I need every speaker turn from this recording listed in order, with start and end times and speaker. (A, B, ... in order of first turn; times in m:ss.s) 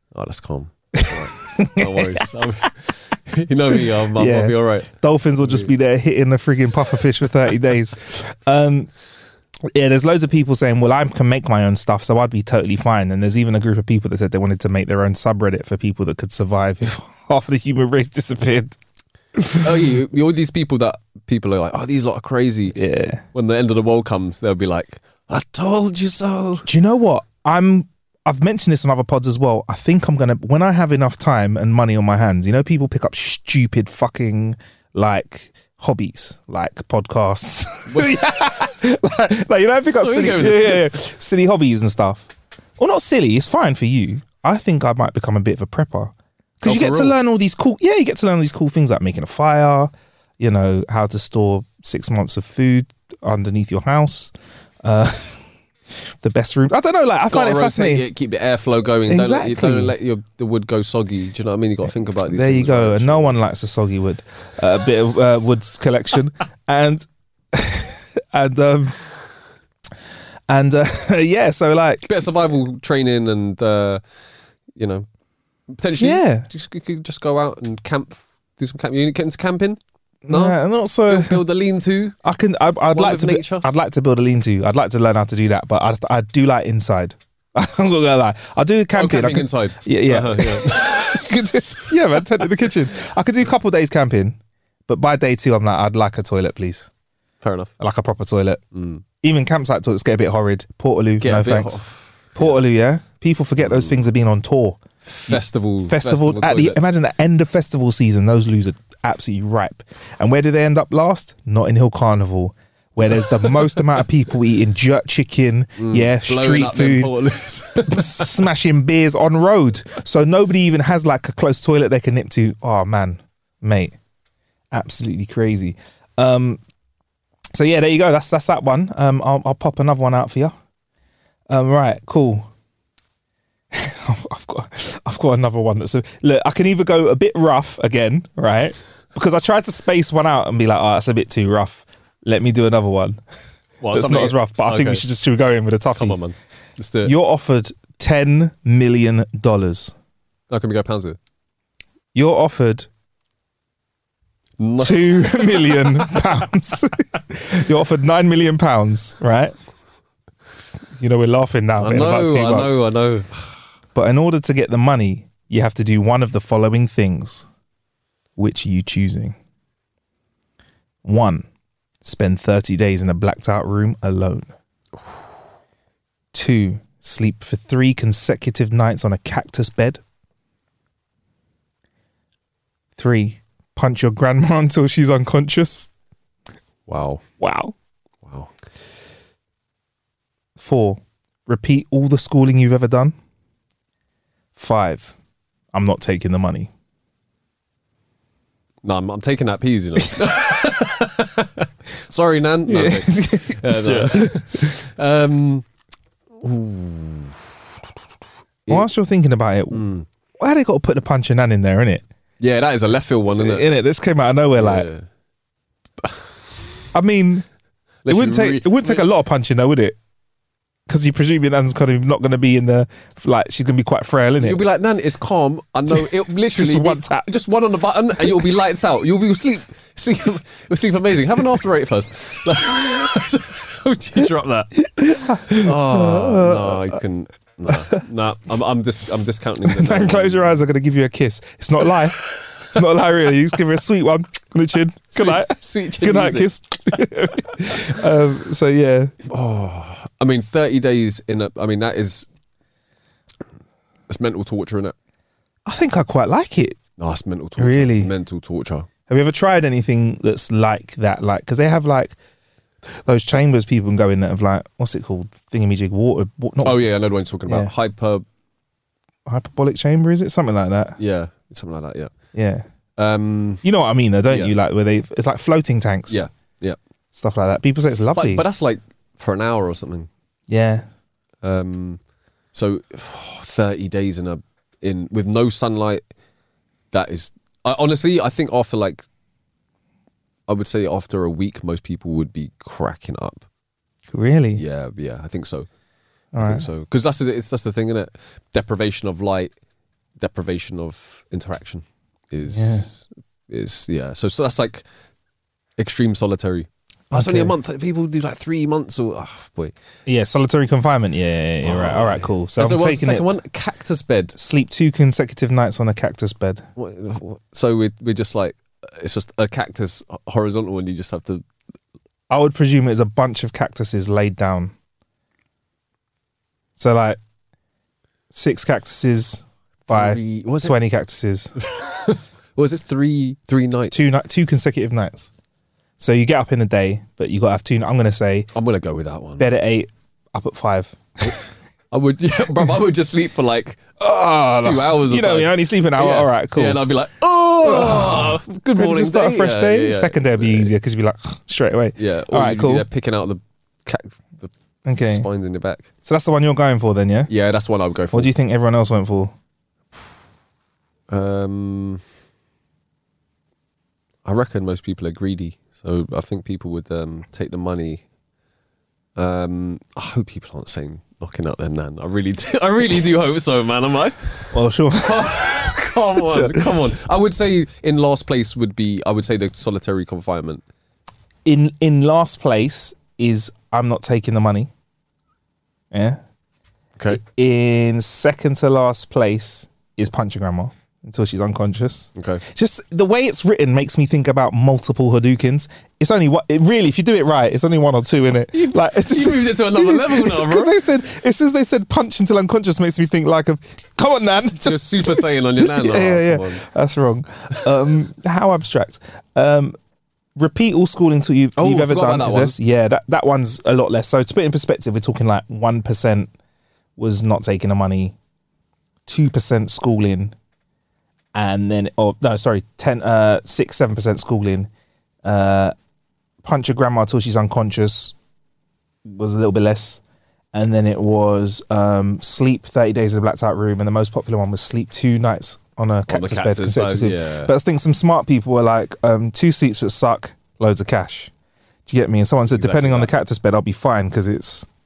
0:00.1-0:05.7 A
0:01.0-0:02.2 B
0:04.2-0:08.9 B
0:09.7-0:18.8 B
0:19.4-0:19.7 B
0:19.6-0:22.8 A
0:22.7-0:23.2 B
0:23.3-0:26.7 A
0:26.6-0:58.1 B
0:37.9-0:38.2 A
0:40.0-0:40.9 A
0:46.6-0:47.2 A
0:57.3-1:03.4 A
0:59.1-0:59.9 B
1:02.3-1:09.0 B
1:10.5-1:12.1 B
1:12.0-1:14.0 A
1:14.8-1:15.0 A
1:15.7-1:22.1 A
1:16.0-1:16.5 B
1:20.2-1:21.4 B
1:22.2-1:36.9 B
1:22.9-1:23.7 A
1:28.9-1:32.7 A
1:37.4-1:37.7 A
1:37.8-1:38.6 B
1:38.7-1:39.0 A
1:39.2-1:41.8 B
1:41.2-1:42.6 A
1:42.3-1:57.1 B
1:43.6-1:43.9 A
1:45.0-1:46.9 A
1:53.1-1:53.7 A
1:55.8-1:58.4 A
1:57.8-2:04.0 B
2:04.7-2:06.6 B
2:07.5-2:10.5 B
2:11.5-2:12.5 B
2:13.7-2:23.2 B
2:23.8-2:25.0 A
2:23.9-2:26.2 B
2:25.9-2:27.1 A
2:27.0-2:29.9 B
2:30.5-2:31.2 A
2:32.1-2:32.9 B
2:34.6-2:36.0 A
2:34.8-2:39.6 B
2:41.0-2:42.8 B
2:41.8-2:43.4 A
2:43.9-2:47.5 B
2:48.4-2:49.4 B
2:51.0-2:51.5 B
2:52.0-2:54.5 B
2:56.3-3:00.0 B
3:03.0-3:05.9 B
3:06.9-3:07.2 A
3:07.4-3:07.7 B
3:08.2-3:08.5 A
3:10.6-3:13.1 B
3:14.6-3:15.1 B
3:15.7-3:16.7 B
3:18.8-3:25.6 A
3:22.7-3:24.7 B
3:26.4-3:27.4 A
3:28.7-3:29.8 B
3:29.7-3:30.0 A
3:30.4-3:32.0 B
3:32.4-3:33.7 A
3:33.4-3:34.9 B
3:34.6-3:35.0 A
3:36.9-3:37.4 B
3:38.0-3:39.0 A
3:38.1-3:40.0 B
3:40.9-3:44.6 B
3:44.4-3:54.7 A
3:45.9-3:47.3 B
3:54.8-3:57.0 B
3:55.5-4:00.6 A
3:59.6-4:09.1 B
4:05.1-4:06.5 A
4:09.2-4:12.3 A
4:14.1-4:14.9 A
4:15.6-4:16.8 B
4:17.0-4:18.9 A
4:17.6-4:18.1 B
4:19.1-4:22.2 B
4:22.9-4:26.8 B
4:26.6-4:28.2 A
4:27.5-4:27.7 B
4:29.2-4:31.0 B
4:31.0-4:32.1 A
4:32.3-4:32.6 B
4:33.0-4:33.6 A
4:33.6-4:36.2 B
4:34.3-4:34.5 A
4:36.1-4:36.8 A
4:37.1-4:38.4 B
4:38.1-4:40.1 A
4:40.5-4:40.8 B
4:41.4-4:42.0 A
4:42.5-4:46.0 A
4:46.9-4:49.0 A
4:50.5-4:53.4 A
4:54.1-4:54.6 B
4:54.5-4:55.7 A
4:56.3-4:56.7 B
4:56.4-4:59.5 A
5:00.2-5:04.8 A
5:02.5-5:02.9 B
5:05.8-5:09.7 A
5:07.1-5:07.5 B
5:10.0-5:13.3 B
5:11.6-5:14.4 A
5:14.3-5:16.6 B
5:16.8-5:21.4 A
5:22.3-5:24.7 B
5:26.8-5:27.2 B
5:28.3-5:31.5 B
5:29.9-5:30.8 A
5:31.6-5:34.1 A
5:33.9-5:35.3 B
5:36.0-5:38.5 B
5:38.5-5:39.5 A
5:39.4-5:41.3 B
5:41.9-5:43.9 A
5:44.0-5:46.8 B
5:44.6-5:50.7 A
5:47.6-5:52.8 B
5:52.0-5:55.9 A
5:54.8-5:55.3 B
5:56.0-5:57.3 B
5:57.3-5:58.3 A
5:58.1-5:59.3 B
6:01.1-6:02.0 A
6:04.2-6:08.0 A
6:09.2-6:20.6 A
6:14.5-6:16.6 B
6:21.4-6:24.7 B
6:25.9-6:26.2 B
6:27.1-6:49.8 B
6:32.1-6:32.4 A
6:38.5-6:40.7 A
6:44.1-6:46.6 A
6:50.4-6:56.3 B
6:51.6-6:52.6 A
6:57.0-6:58.1 B
6:59.0-7:00.3 B
7:01.3-7:04.7 B
7:05.2-7:05.7 B
7:06.4-7:08.1 B
7:09.0-7:10.0 B
7:10.5-7:21.3 B
7:16.1-7:17.5 A
7:21.9-7:24.7 B
7:22.5-7:23.1 A